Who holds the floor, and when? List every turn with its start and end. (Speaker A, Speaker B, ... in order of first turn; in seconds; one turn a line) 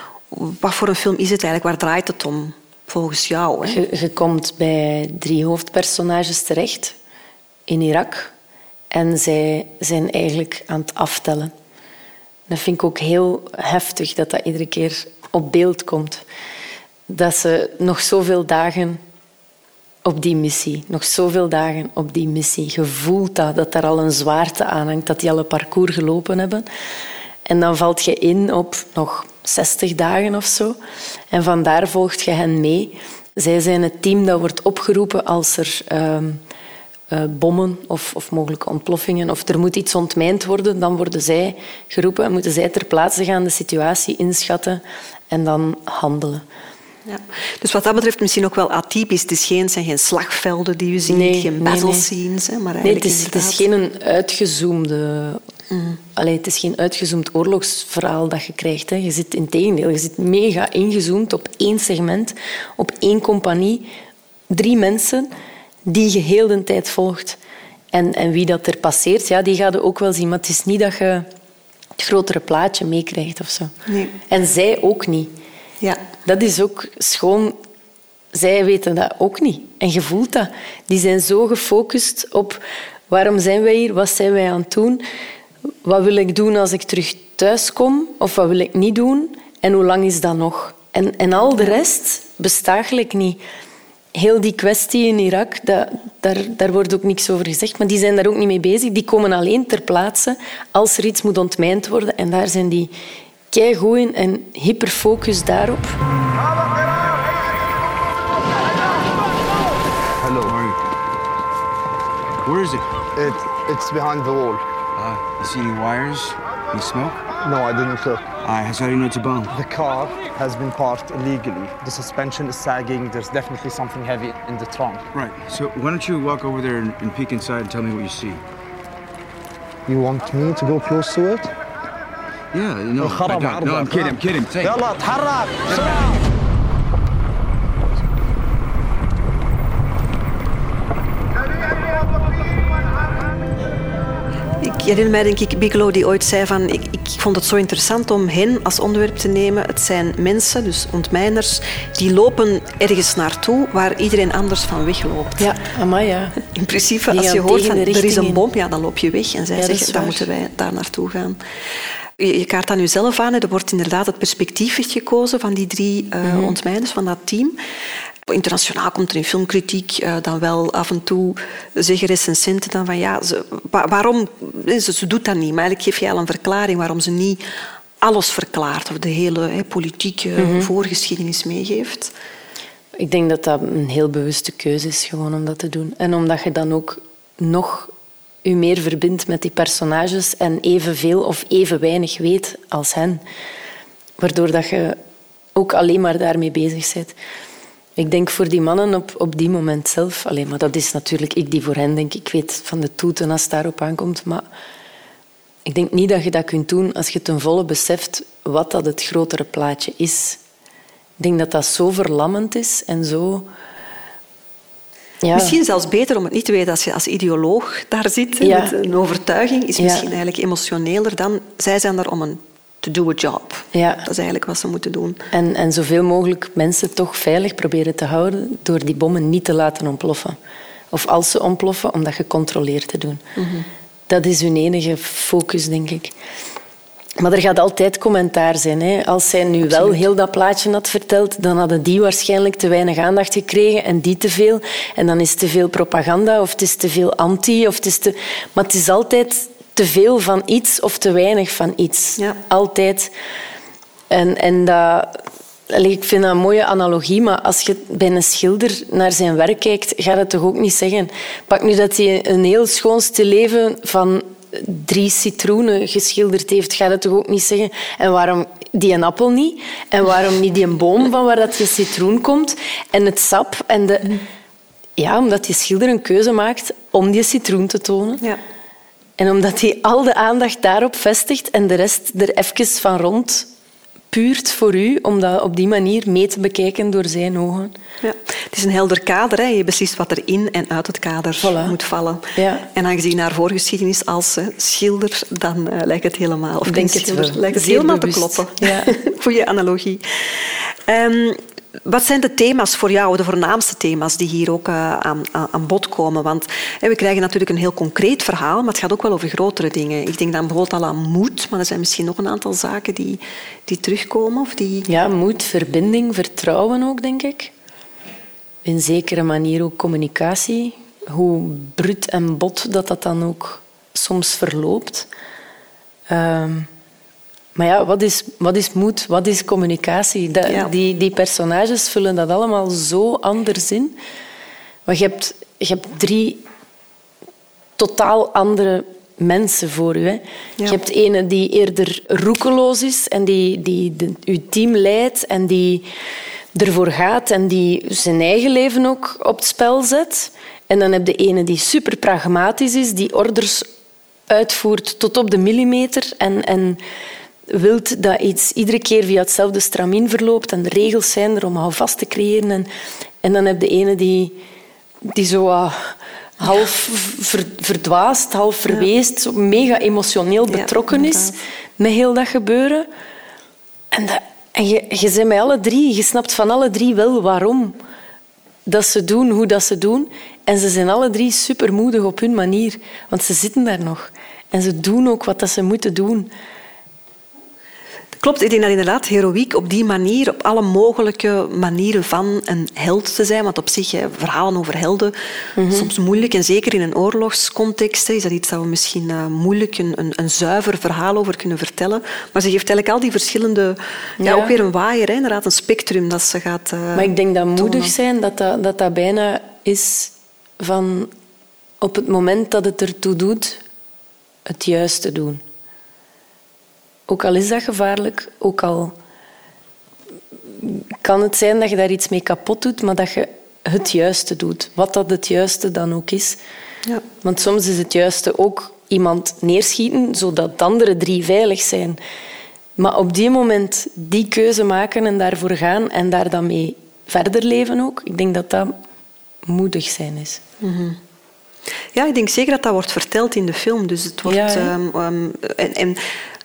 Speaker A: 0.3-3.8
Speaker B: 3.7-7.0
Speaker B: 7.7-8.3
Speaker B: 8.9-11.5
Speaker B: 12.5-16.2
Speaker B: 17.1-19.0
Speaker B: 20.1-26.7
Speaker B: 27.5-30.8
Speaker B: 31.3-36.4
Speaker B: 37.1-46.4
Speaker A: 47.1-53.7
Speaker B: 51.1-52.1
Speaker B: 52.8-55.4
Speaker A: 55.7-56.0
Speaker B: 56.2-63.9
Speaker B: 64.5-65.3
Speaker B: 65.9-67.4
Speaker B: 67.9-71.3
Speaker B: 72.0-73.7
Speaker A: 73.9-74.1
Speaker B: 74.3-75.3
Speaker B: 76.3-77.6
Speaker B: 78.3-85.0
Speaker B: 85.8-93.4
Speaker B: 94.1-102.9
Speaker B: 103.5-106.0
Speaker C: 110.2-110.5
Speaker D: 110.4-110.8
Speaker D: 112.4-112.9
Speaker C: 113.2-114.6
Speaker D: 115.0-117.2
Speaker C: 117.4-118.3
Speaker D: 118.4-119.5
Speaker C: 119.5-125.1
Speaker D: 125.1-128.4
Speaker C: 129.9-131.5
Speaker D: 132.5-134.8
Speaker C: 133.0-136.0
Speaker D: 135.7-136.0
Speaker A: 144.6-155.5
Speaker B: 155.4-156.4
Speaker A: 156.4-161.4
Speaker B: 157.1-158.4
Speaker B: 159.6-160.3
Speaker A: 162.2-167.6
Speaker B: 166.2-166.6
Speaker A: 168.3-177.4
Speaker A: 178.0-182.1
Speaker B: 180.4-180.7
Speaker B: 183.0-187.9
Speaker B: 188.4-193.2
Speaker B: 194.2-195.0
Speaker B: 195.6-197.2
Speaker B: 198.0-204.4
Speaker B: 205.7-210.4
Speaker B: 211.2-213.5
Speaker B: 215.2-215.6
Speaker A: 215.3-225.2
Speaker B: 218.4-218.8
Speaker B: 219.8-220.1
Speaker B: 223.7-224.1
Speaker B: 225.3-230.4
Speaker B: 230.9-233.2
Speaker A: 233.4-233.7
Speaker B: 234.1-236.1
Speaker B: 237.2-253.1
Speaker A: 239.7-240.0
Speaker B: 254.1-274.1
Speaker B: 275.0-278.2
Speaker B: 279.2-283.5
Speaker B: 284.1-287.7
Speaker A: 288.0-314.9
Speaker B: 291.4-291.8
Speaker B: 292.4-292.7
Speaker B: 296.7-299.0
Speaker B: 314.9-317.5
Speaker B: 318.6-325.1
Speaker B: 326.1-326.7
Speaker B: 327.6-333.9
Speaker A: 330.5-330.7
Speaker B: 334.9-336.4
Speaker B: 337.8-345.9
Speaker B: 346.6-353.7
Speaker B: 354.3-356.8
Speaker B: 357.5-362.7
Speaker B: 363.2-364.4
Speaker B: 365.1-372.9
Speaker A: 370.5-371.4
Speaker B: 373.9-377.8
Speaker B: 378.7-386.3
Speaker A: 388.2-395.2
Speaker B: 395.6-395.9
Speaker A: 395.7-407.9
Speaker B: 404.2-404.6
Speaker B: 406.9-411.1
Speaker B: 411.8-413.6
Speaker B: 414.5-415.4
Speaker B: 417.1-418.9
Speaker B: 420.6-426.4
Speaker B: 427.2-432.0
Speaker B: 432.8-438.8
Speaker B: 439.5-440.4
Speaker A: 440.6-441.0
Speaker A: 441.9-446.0
Speaker B: 444.3-444.7